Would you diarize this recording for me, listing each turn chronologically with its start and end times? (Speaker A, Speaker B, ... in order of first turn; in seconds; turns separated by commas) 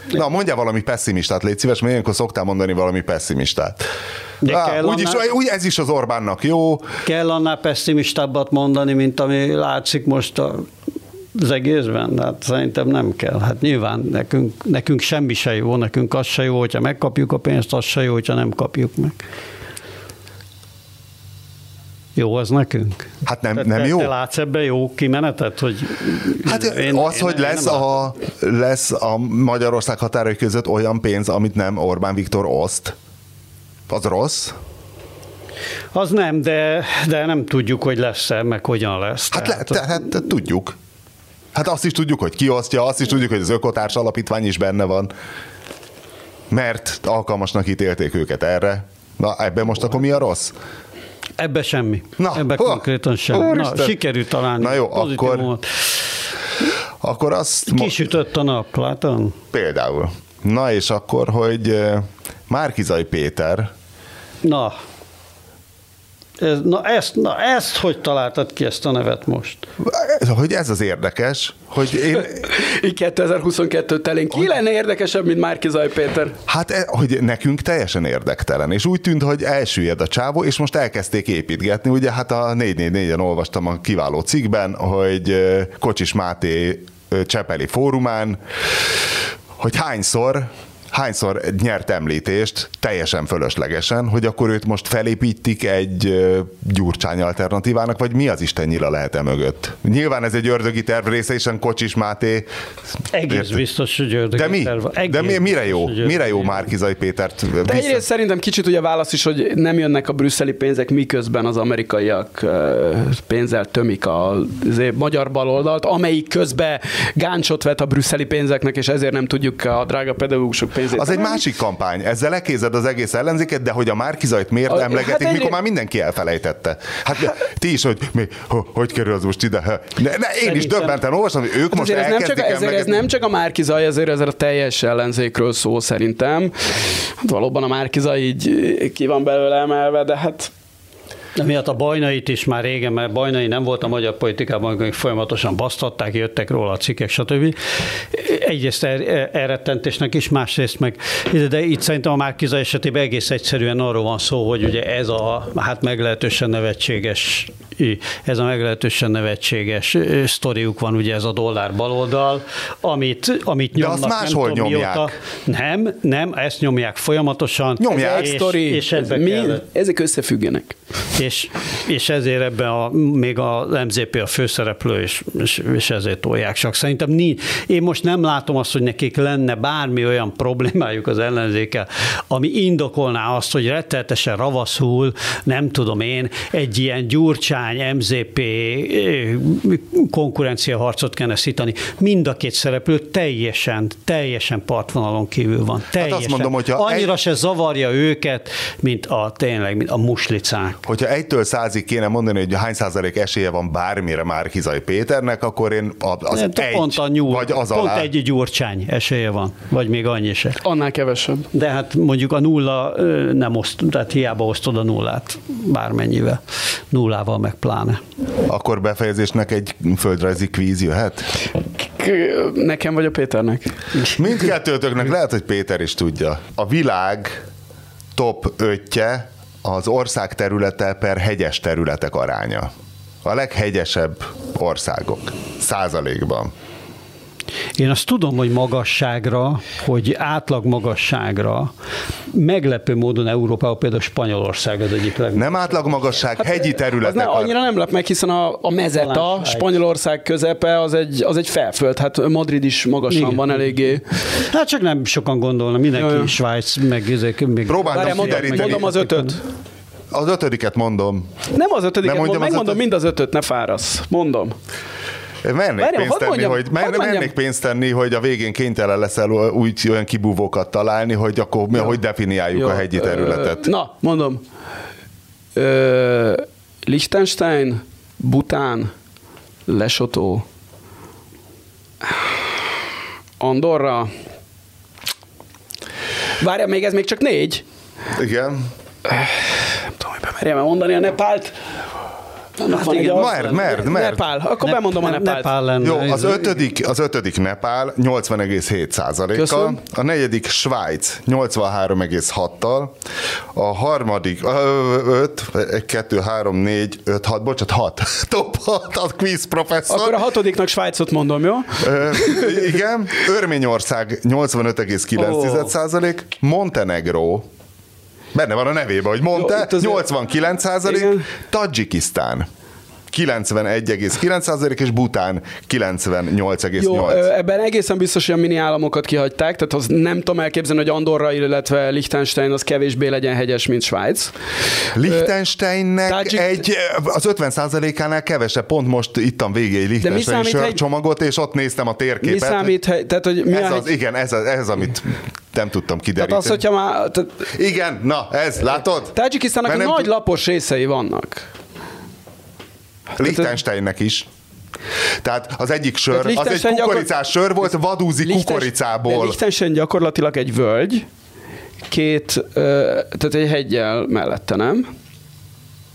Speaker A: 0.1-3.8, Speaker B: 4.4-5.2, Speaker A: 4.5-6.9, Speaker B: 7.0-10.7, Speaker B: 11.3-19.2, Speaker B: 22.1-27.9, Speaker A: 23.2-24.1, Speaker A: 26.4-32.9, Speaker A: 33.9-34.5, Speaker B: 35.9-39.8, Speaker A: 39.3-40.8, Speaker A: 41.5-45.1, Speaker A: 46.5-50.5, Speaker B: 51.4-56.0, Speaker A: 52.2-53.9, Speaker A: 54.6-55.5, Speaker A: 57.0-58.0, Speaker B: 57.7-59.4, Speaker A: 59.5-63.7, Speaker B: 64.4-64.7, Speaker B: 66.4-69.6, Speaker A: 69.8-72.5, Speaker C: 72.2-76.3, Speaker A: 76.5-88.4, Speaker A: 89.6-102.5, Speaker B: 103.1-106.7, Speaker A: 103.3-103.6, Speaker A: 104.3-108.0, Speaker C: 107.6-121.4, Speaker A: 121.0-133.0, Speaker C: 124.7-125.6, Speaker B: 130.4-131.0, Speaker C: 131.7-140.5, Speaker B: 141.3-169.6, Speaker A: 163.7-165.1, Speaker A: 167.8-168.3, Speaker C: 167.9-170.8, Speaker B: 171.2-200.8, Speaker A: 195.9-197.1, Speaker A: 200.8-208.1, Speaker B: 206.3-210.6, Speaker C: 210.6-211.5, Speaker B: 211.5-218.0, Speaker A: 218.5-221.3, Speaker C: 221.8-223.8, Speaker A: 224.0-227.4, Speaker A: 228.2-232.7, Speaker A: 233.2-236.5, Speaker B: 237.8-241.7, Speaker B: 242.3-246.2, Speaker A: 245.3-247.5, Speaker C: 246.4-254.0, Speaker B: 248.9-249.7, Speaker B: 253.1-253.7, Speaker B: 254.2-259.4, Speaker C: 255.9-256.3, Speaker A: 257.7-258.9, Speaker C: 257.9-259.4, Speaker A: 260.1-261.3, Speaker C: 261.5-264.6, Speaker A: 262.0-262.8, Speaker A: 265.4-273.7, Speaker C: 265.8-267.3, Speaker C: 272.5-274.4, Speaker C: 275.5-278.9, Speaker C: 279.7-280.4, Speaker C: 283.4-284.1, Speaker C: 286.4-287.6, Speaker A: 288.1-288.6, Speaker C: 289.1-291.5, Speaker C: 292.6-295.5, Speaker B: 292.7-293.6, Speaker A: 293.1-294.2, Speaker B: 294.6-296.5, Speaker A: 295.8-302.9, Speaker C: 299.3-299.8, Speaker A: 303.5-310.2, Speaker C: 309.9-312.6, Speaker A: 311.8-317.4, Speaker C: 315.3-315.6, Speaker A: 318.3-322.5, Speaker C: 319.3-320.1, Speaker C: 320.9-321.2, Speaker A: 323.1-327.2, Speaker C: 326.8-334.3, Speaker A: 334.9-342.7, Speaker C: 335.0-335.3, Speaker C: 336.1-336.6, Speaker C: 340.0-340.8, Speaker C: 342.2-343.9, Speaker A: 343.5-346.6, Speaker C: 346.2-347.4, Speaker A: 347.5-350.1, Speaker C: 349.1-351.5, Speaker A: 353.2-354.3, Speaker C: 353.2-353.5, Speaker A: 355.2-359.4, Speaker C: 356.1-357.1, Speaker C: 358.2-361.1, Speaker C: 361.9-364.9